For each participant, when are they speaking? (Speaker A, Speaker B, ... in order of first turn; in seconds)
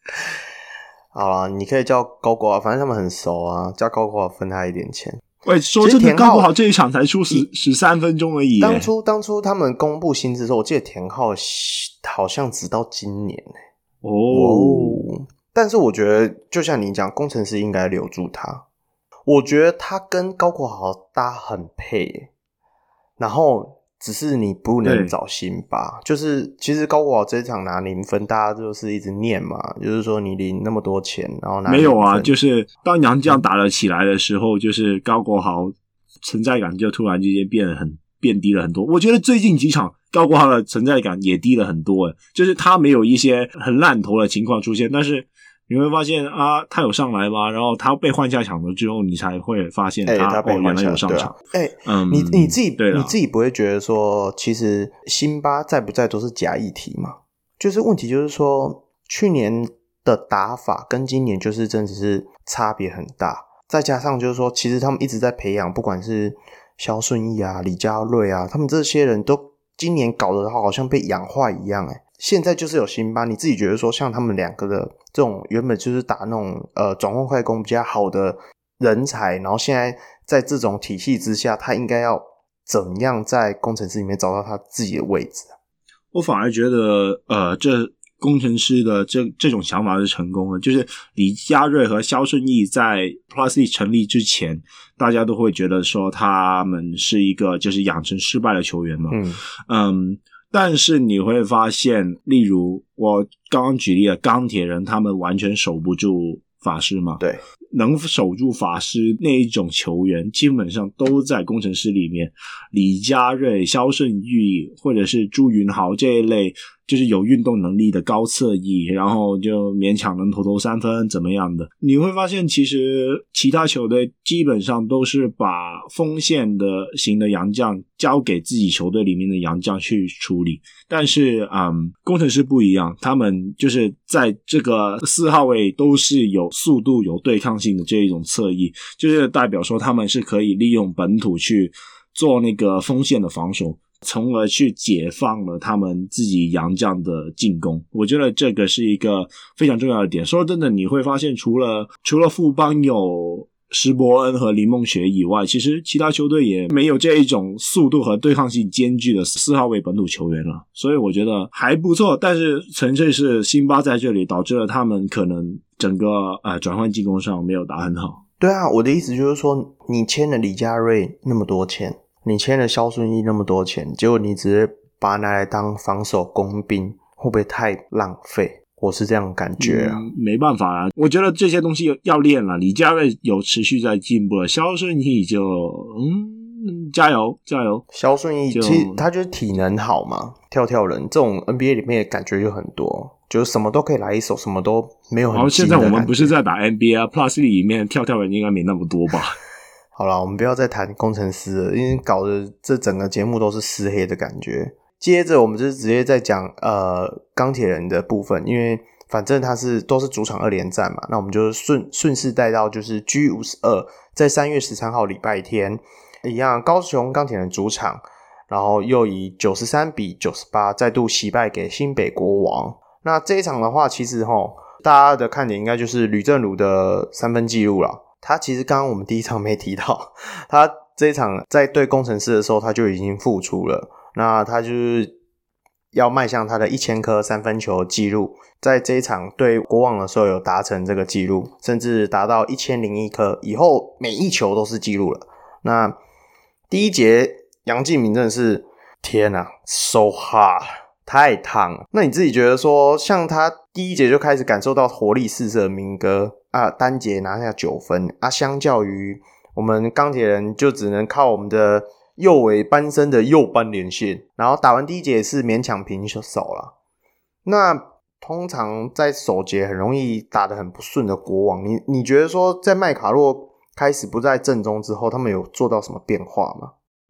Speaker A: 1.1-5.2, 5.8-6.5, 8.6-13.5, 14.3-18.6, 19.3-22.3, 23.2-32.3, 50.1-85.5, 99.1-99.4, 168.4-180.1, 187.9-196.3, 200.0-235.2, 235.9-246.0, 246.7-266.7, 267.4-276.7
Speaker B: 5.5-8.9, 14.0-15.0, 24.8-25.1, 31.7-53.1, 86.1-107.2, 107.7-168.2, 179.6-187.8, 188.5-189.1, 195.3-199.4